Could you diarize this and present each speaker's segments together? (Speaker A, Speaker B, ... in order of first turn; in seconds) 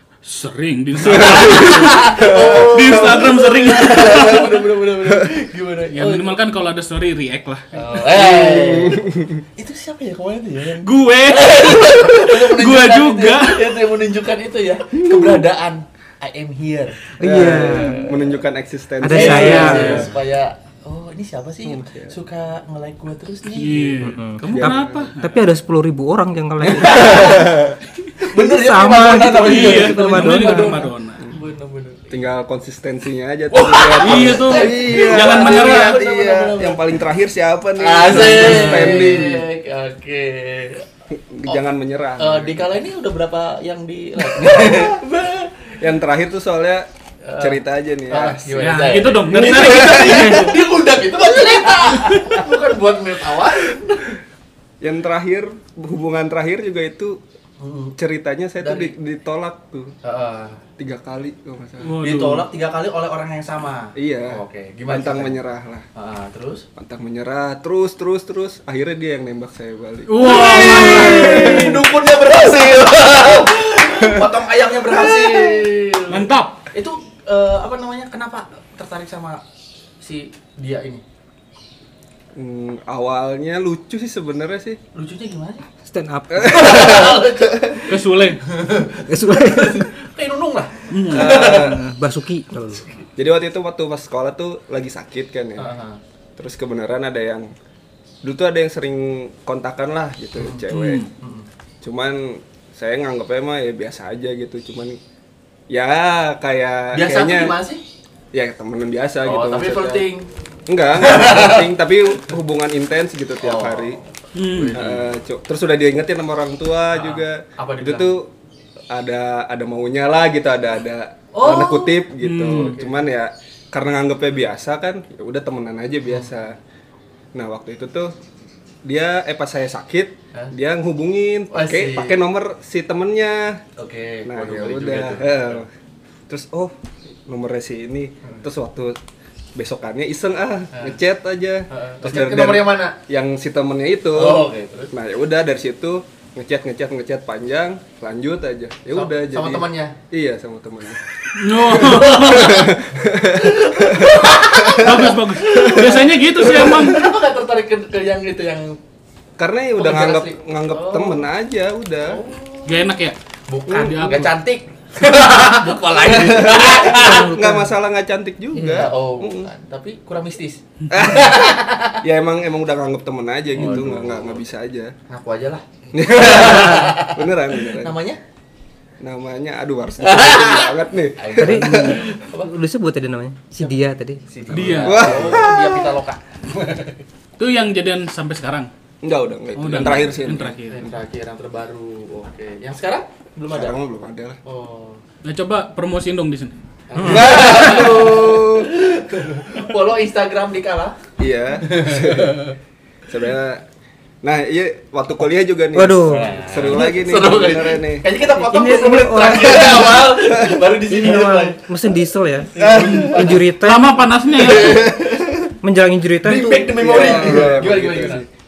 Speaker A: 0.2-4.6, 5.9-7.8, 10.8-13.8, 23.6-25.2, 29.3-31.3, 34.0-35.9, 38.3-38.9, 48.6-50.7, 61.8-62.5, 70.1-71.8, 76.1-76.6, 87.9-88.4, 90.9-91.3, 100.7-101.1, 114.3-114.8, 122.2-122.8, 151.3-152.7, 154.7-157.1, 162.7-163.2, 163.7-164.3, 184.5-185.2, 187.4-188.7, 189.5-190.9, 195.2-196.5, 212.8-214.9
Speaker B: 1.0-6.4, 7.7-18.4, 19.1-24.2, 26.6-32.1, 33.5-36.8, 37.8-40.9, 42.2-45.8, 47.2-54.2, 57.6-58.0, 58.6-58.9, 60.0-60.6, 62.0-65.4, 65.9-66.7, 70.2-79.4, 80.0-81.0, 84.9-85.7, 86.4-91.8, 92.8-93.1, 95.6-96.0, 100.3-101.5, 106.9-107.8, 109.2-110.3, 111.0-111.7, 113.4-115.1, 116.9-118.1, 121.3-123.0, 131.5-132.2, 133.8-135.6, 141.7-143.0, 144.1-144.9, 148.9-150.0, 151.7-158.8, 159.8-161.3, 162.0-162.9, 163.5-167.3, 168.7-172.0, 173.5-174.4, 175.1-178.2, 180.0-182.5, 183.6-187.0, 190.7-193.8, 194.4-195.0, 196.9-201.0, 201.6-202.6, 206.1-211.9, 212.5-213.6, 214.3-215.3, 216.2-218.2
Speaker C: 1.2-3.2, 8.1-9.4, 15.0-15.4, 17.2-20.1, 21.6-22.1, 24.4-25.1, 26.7-27.8, 32.1-39.4, 41.1-42.7, 44.3-45.0, 45.8-46.9, 47.4-50.5, 54.8-57.2, 58.0-59.9, 60.8-62.2, 63.9-65.8, 66.8-71.8, 74.0-74.3, 74.9-75.7, 82.3-84.8, 86.3-87.8, 91.1-91.8, 93.2-95.7, 96.4-97.5, 98.2-101.0, 101.8-105.0, 105.7-107.6, 108.3-110.0, 110.7-114.0, 114.7-118.3, 118.9-126.6, 127.3-128.1, 128.8-133.6, 134.2-135.7, 136.3-136.7, 137.2-139.0, 139.5-151.0, 151.6-155.0, 155.6-157.1, 159.4-162.2, 166.0-169.5, 170.9-174.9, 175.9-178.0, 179.0-182.0, 184.8-185.9, 189.0-190.6, 193.5-194.4, 197.0-198.7, 201.2-202.4, 203.1-203.6, 204.2-208.1, 209.7-210.5, 212.6-213.2, 214.4-215.5, 216.6-218.3
Speaker D: 17.2-18.1, 19.0-20.1, 24.0-27.6, 28.3-30.9, 71.2-71.7, 85.8-87.1, 89.1-89.9, 91.2-92.8, 166.8-167.7, 168.5-168.9, 181.4-185.4, 197.0-197.8, 205.7-206.3, 208.3-213.9, 215.6-217.6